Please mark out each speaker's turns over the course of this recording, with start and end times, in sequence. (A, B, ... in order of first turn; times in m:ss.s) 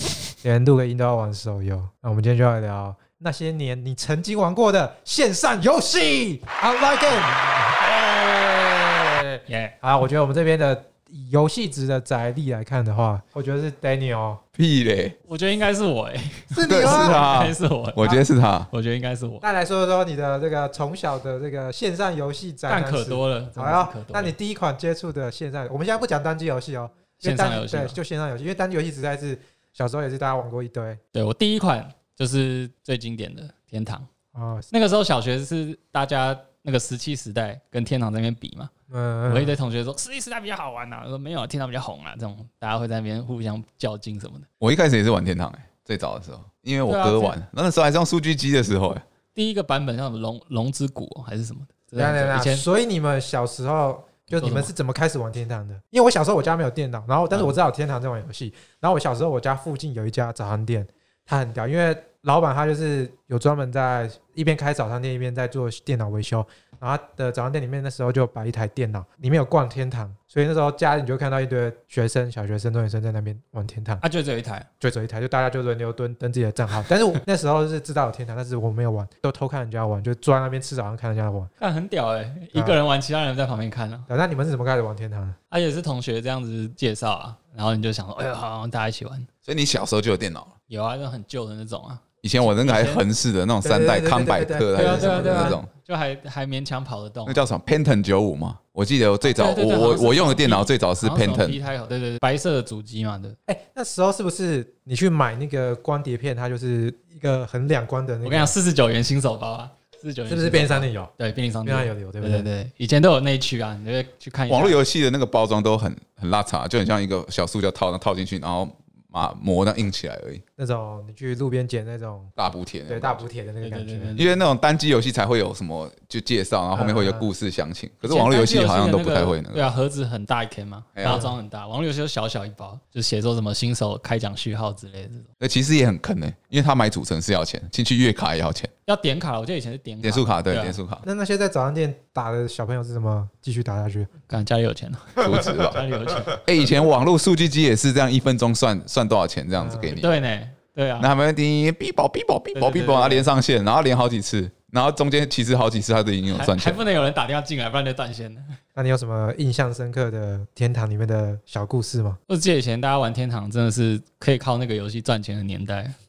0:00.4-0:14.4 A
0:09.5-0:09.8 B
0:14.6-0:15.2 C
0:15.3-0:19.4 B
0:16.5-0:17.3 A
0:16.7-0:18.7 C
0:19.4-0:31.0 A
0:22.7-0:24.3 B
0:27.2-0:28.0 B
0:31.1-0:34.1 B
0:34.3-0:34.7 A
0:34.7-0:38.7 B
0:38.9-0:39.6 A
0:39.3-0:44.5 B
0:44.6-0:49.0 C
0:46.9-0:47.4 B
0:49.4-0:52.6 B
0:52.0-1:14.0 A
0:54.4-0:54.7 B
1:14.0-1:14.7 B
1:14.8-1:21.5 A
1:21.6-1:24.1 B
1:24.1-1:25.4 A
1:25.5-1:29.3 B
1:29.4-1:30.5 C
1:30.7-1:33.0 B
1:32.2-1:35.7 C
1:33.6-1:35.6 A
1:34.8-1:37.4 B
1:37.3-1:41.6 C
1:39.2-1:43.4 B
1:43.5-1:48.5 A
1:48.2-1:54.8 B
1:50.3-1:51.1 A
1:51.6-1:52.5 A
1:54.5-2:00.4 C
2:00.6-2:02.3 A
2:02.4-2:03.3 C
2:02.9-2:04.2 A
2:03.6-2:04.4 B
2:04.2-2:09.7 C
2:06.7-2:07.3 A
2:08.0-2:15.3 B
2:11.0-2:11.2 C
2:11.0-2:11.3 A
2:15.4-2:18.7 C
2:18.9-2:20.8 B
2:20.0-2:21.0 C
2:21.0-2:24.1 A
2:24.3-2:26.4 B
2:25.2-2:25.8 C
2:26.4-2:30.2 C
2:29.6-2:30.0 A
2:29.9-2:31.1 B
2:31.0-2:36.8 C
2:32.5-2:33.3 B
2:36.3-2:38.6 B
2:38.8-2:42.2 A
2:42.3-2:46.0 B